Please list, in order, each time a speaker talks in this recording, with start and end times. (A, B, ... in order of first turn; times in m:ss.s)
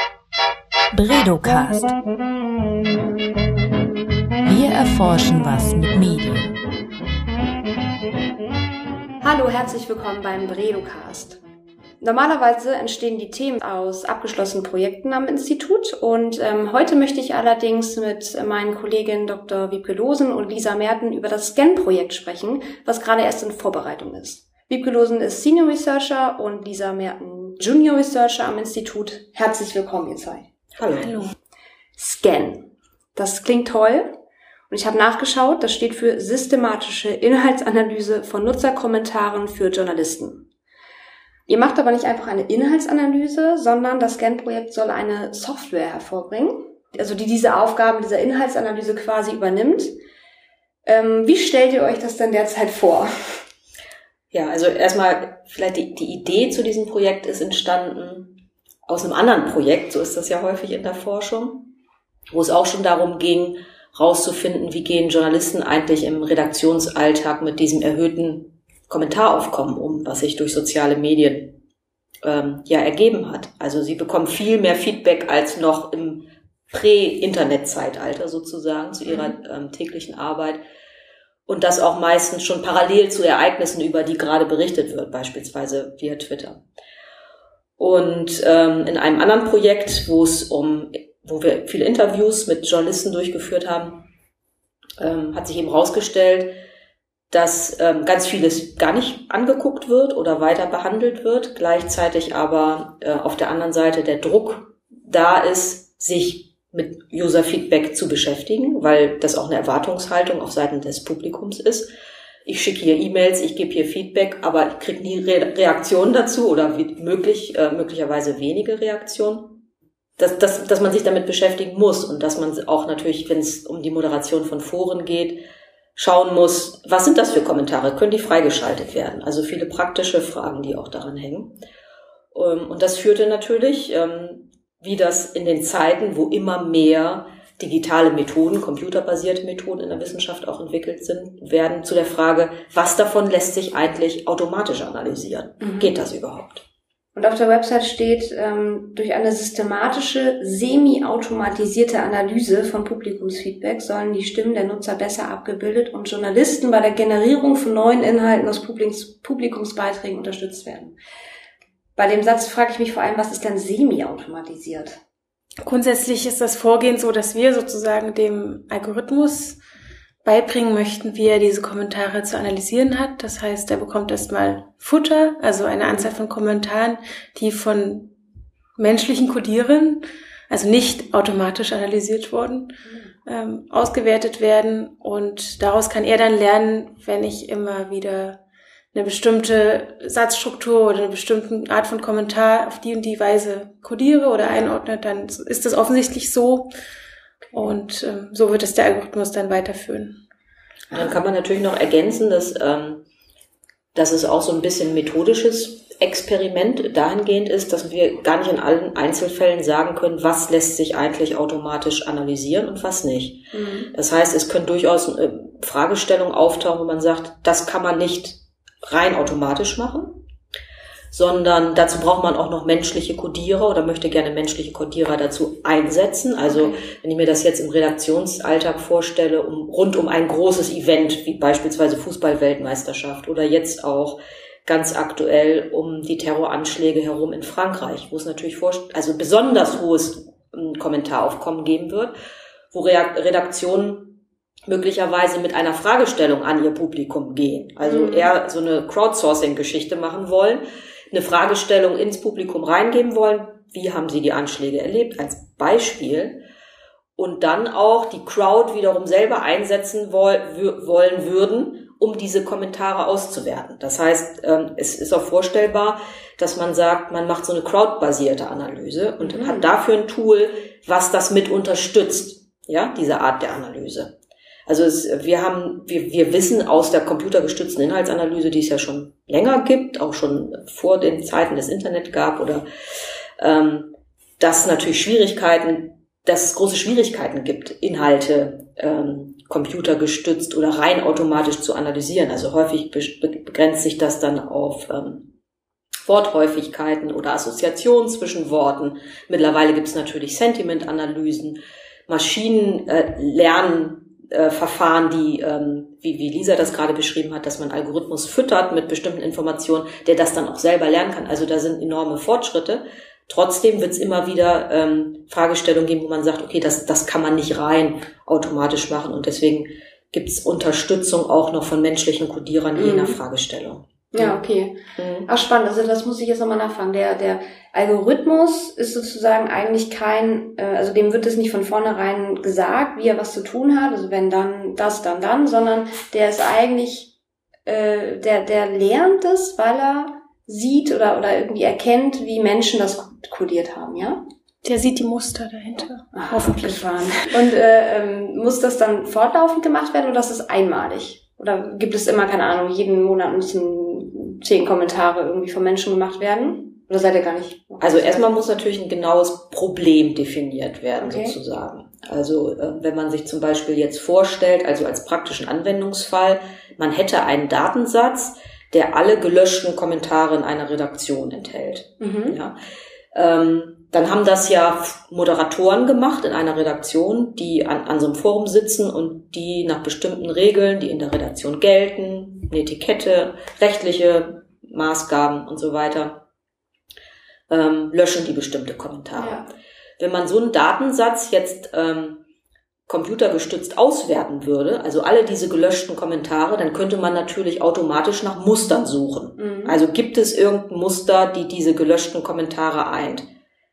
0:00.9-0:01.9 A
0:04.4-0:06.5 A
0:09.2-0:11.4 B
0:12.0-0:30.5 B
0:30.8-0:31.2 C
0:31.0-0:31.3 D
0:32.0-0:34.1 B
0:34.7-0:40.4 B
0:41.5-0:49.9 B
0:50.8-0:53.4 B
0:54.3-1:01.7 C
1:02.3-1:11.6 C
1:12.2-1:20.6 C
1:21.5-1:26.6 C
1:27.8-1:34.1 C
1:35.0-1:36.6 C
1:37.3-1:51.9 C
1:52.4-1:59.6 C
2:00.2-2:05.4 C
2:06.0-2:11.6 C
2:12.3-2:26.6 C
2:25.6-2:25.9 B
2:27.2-2:41.0 B
2:42.0-2:45.0 B
2:45.6-2:49.6 D
2:50.2-2:58.1 D
2:58.8-3:02.7 D
3:03.3-3:08.4 D
3:08.9-3:16.7 D
3:17.5-3:20.2 D
3:20.9-3:23.0 C
3:23.9-3:40.2 C
3:33.5-3:33.9 B
3:41.1-4:02.1 C
4:02.7-4:16.4 C
4:07.8-4:08.3 B
4:17.2-4:34.1 C
4:29.2-4:29.7 B
4:34.7-4:42.7 C
4:43.4-4:55.3 C
4:56.0-5:24.4 C
5:22.8-5:23.2 B
5:24.1-5:24.8 B
5:25.0-5:25.3 C
5:25.3-5:37.1 B
5:37.7-5:44.2 B
5:44.6-5:47.1 D
5:46.1-5:58.3 B
5:57.8-6:12.6 C
6:01.0-6:01.4 B
6:12.0-6:12.4 B
6:13.1-6:26.2 C
6:27.5-6:29.5 C
6:29.2-6:29.5 B
6:30.0-6:32.2 C
6:32.9-6:43.3 C
6:39.4-6:39.8 B